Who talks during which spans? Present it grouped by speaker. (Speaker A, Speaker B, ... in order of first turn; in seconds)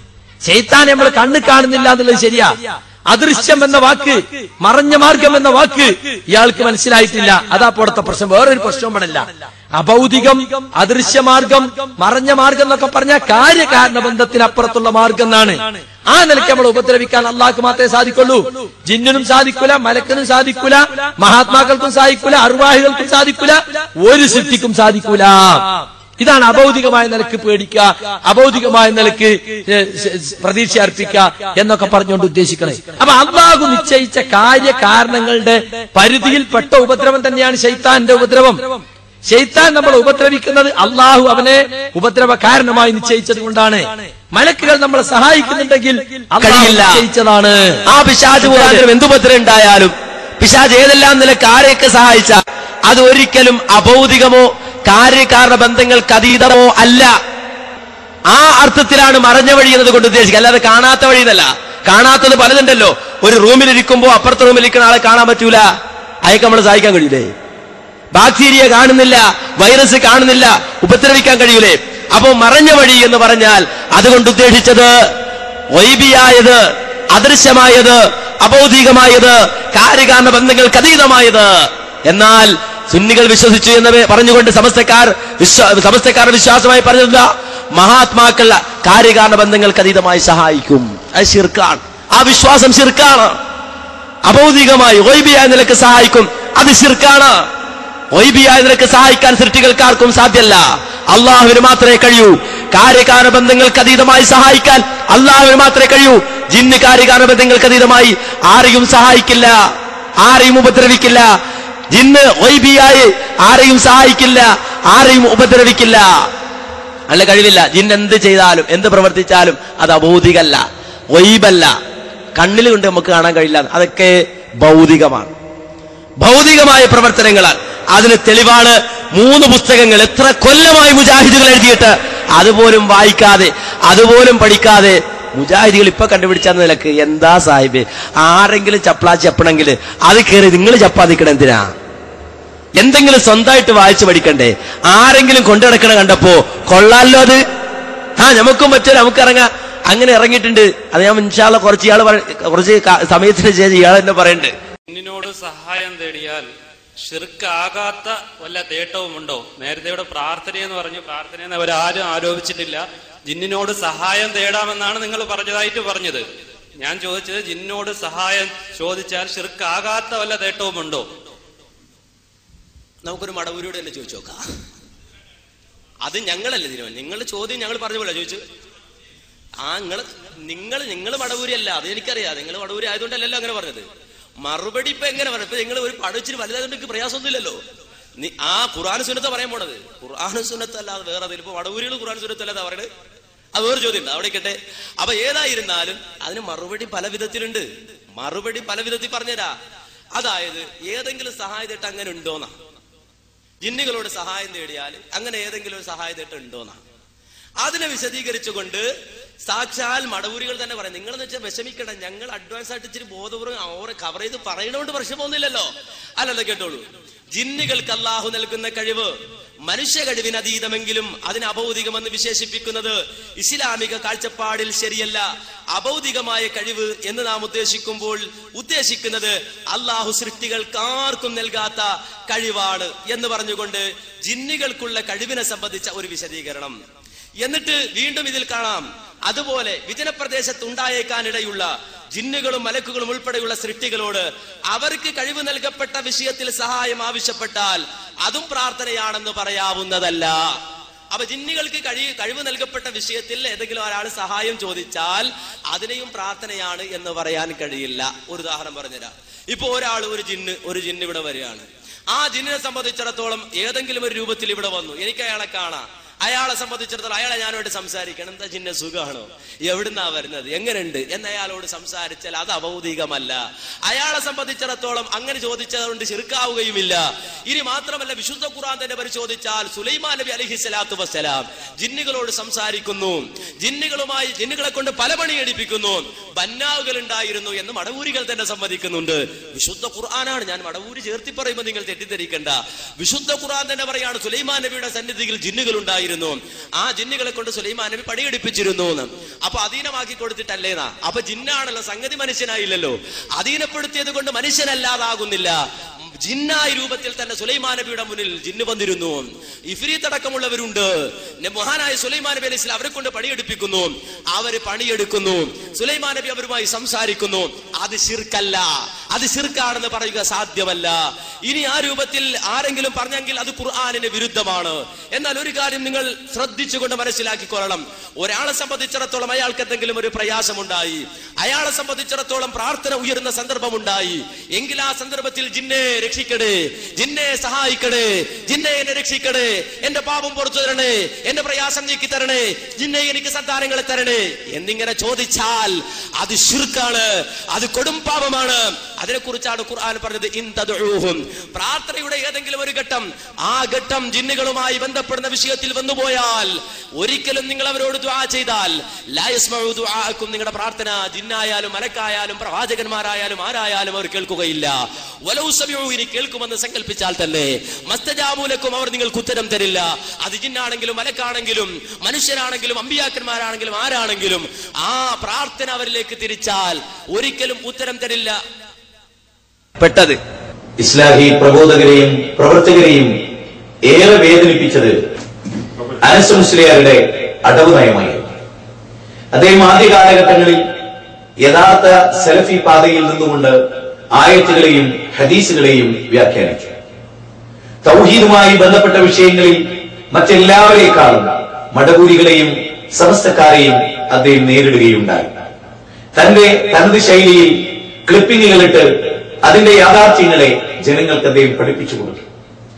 Speaker A: 0.4-25.6, 26.2-38.7, 39.3-47.8, 48.4-48.8
Speaker B: 46.4-47.0, 47.9-57.1, 58.3-65.7, 66.2-67.3, 68.1-74.9, 75.7-76.6, 77.1-93.4, 94.2-97.4, 98.1-109.6, 110.2-111.3, 111.9-116.1, 117.1-121.7, 122.3-125.3, 126.2-141.7, 142.8-147.4, 148.2-154.5, 344.6-345.7, 346.3-346.8, 347.6-348.5, 349.6-351.1, 353.8-355.4, 357.1-357.8, 360.1-360.6, 363.9-364.6, 366.6-367.4, 369.2-369.5, 379.8-380.2
Speaker C: 154.9-156.5, 157.0-166.2, 166.8-171.1
Speaker D: 173.1-174.3, 176.0-178.4, 179.6-183.8, 184.4-187.6, 188.2-192.9, 193.6-197.6, 198.2-199.5, 200.2-202.5, 203.6-206.8, 207.6-208.8, 209.5-215.7, 216.2-216.8, 217.4-219.0, 219.7-225.2, 225.8-236.7, 237.4-241.6, 242.2-244.2, 244.7-247.8, 248.3-250.3, 251.1-273.3, 273.9-276.9, 277.5-305.5, 306.2-309.2, 309.7-310.9, 311.4-318.6, 319.1-320.9, 321.5-344.2, 346.3-347.0, 349.0-349.7, 351.6-353.0, 353.6-354.3, 355.2-356.4, 357.1-358.7, 359.2-359.9, 360.5-364.5, 365.3-366.9, 367.9-376.5, 377.2-378.3
Speaker E: 380.8-383.1, 383.9-384.9, 386.0-388.3, 389.3-390.6, 391.4-393.6, 394.1-396.7, 397.8-405.4, 406.1-408.9, 409.4-412.2